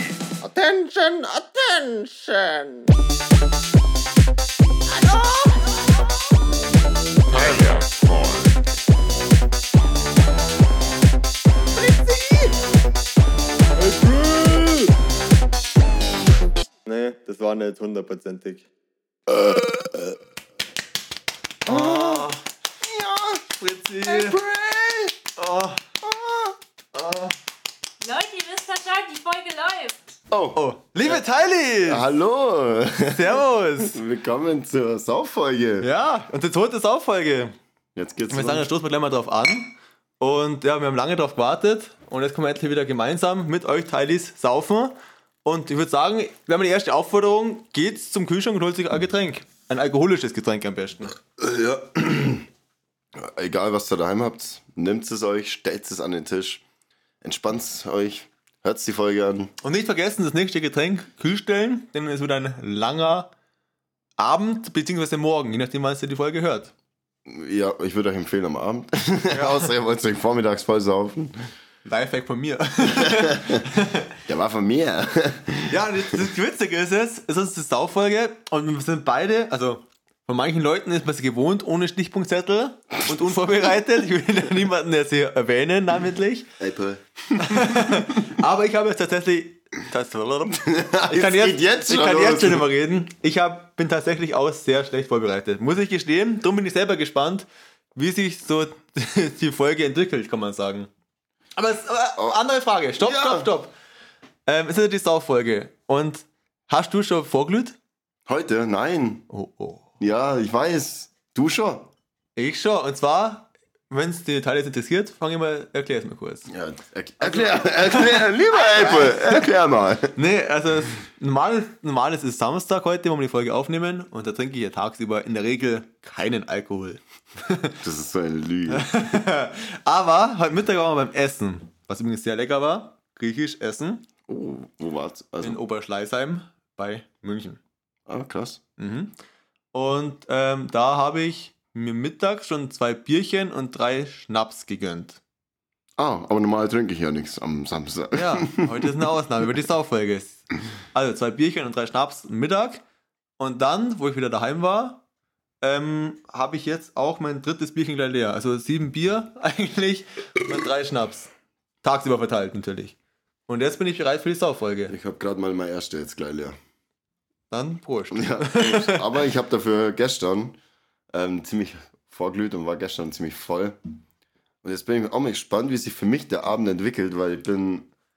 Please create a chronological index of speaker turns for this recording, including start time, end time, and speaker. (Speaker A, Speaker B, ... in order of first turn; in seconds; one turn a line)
Speaker A: 0.4-2.9
Speaker A: 4.9-6.1
Speaker B: 7.3-8.5
Speaker C: 11.8-12.5
Speaker C: 13.7-14.9
Speaker C: 16.8-18.6
Speaker B: 19.4-19.8
Speaker C: 21.6-22.4
Speaker B: 21.6-23.4
Speaker C: 23.6-24.4
Speaker B: 24.1-25.2
Speaker C: 25.3-25.9
Speaker B: 26.0-26.5
Speaker C: 26.9-27.3
Speaker D: 28.0-30.0
Speaker B: 30.3-31.2
Speaker C: 30.5-32.0
Speaker B: 31.8-35.9
Speaker C: 33.1-34.0
Speaker C: 35.8-37.5
Speaker B: 37.9-38.7
Speaker C: 38.3-51.2
Speaker B: 51.4-52.5
Speaker B: 53.1-56.6
Speaker B: 57.2-59.5
Speaker C: 59.6-63.3
Speaker C: 64.2-66.7
Speaker B: 67.2-71.3
Speaker C: 69.3-69.6
Speaker C: 71.8-74.2
Speaker B: 73.0-73.6
Speaker B: 74.3-76.2
Speaker C: 75.7-86.5
Speaker B: 86.6-88.1
Speaker C: 87.4-100.9
Speaker B: 90.6-92.7
Speaker C: 101.5-103.7
Speaker B: 103.0-103.5
Speaker C: 104.5-107.8
Speaker B: 108.3-109.3
Speaker C: 109.3-109.9
Speaker B: 110.0-111.9
Speaker C: 112.3-116.5
Speaker B: 116.5-120.1
Speaker C: 117.2-119.4
Speaker C: 120.1-127.8
Speaker B: 127.8-129.2
Speaker C: 128.7-134.0
Speaker B: 134.3-135.6
Speaker C: 135.4-137.6
Speaker B: 138.1-138.6
Speaker C: 138.8-139.1
Speaker C: 139.7-145.2
Speaker B: 146.0-148.9
Speaker C: 148.1-152.8
Speaker C: 153.4-155.0
Speaker C: 155.6-161.3
Speaker C: 161.8-162.9
Speaker C: 163.5-164.9
Speaker B: 164.9-166.6
Speaker C: 167.5-169.1
Speaker B: 168.1-170.6
Speaker B: 171.1-173.8
Speaker B: 174.6-177.9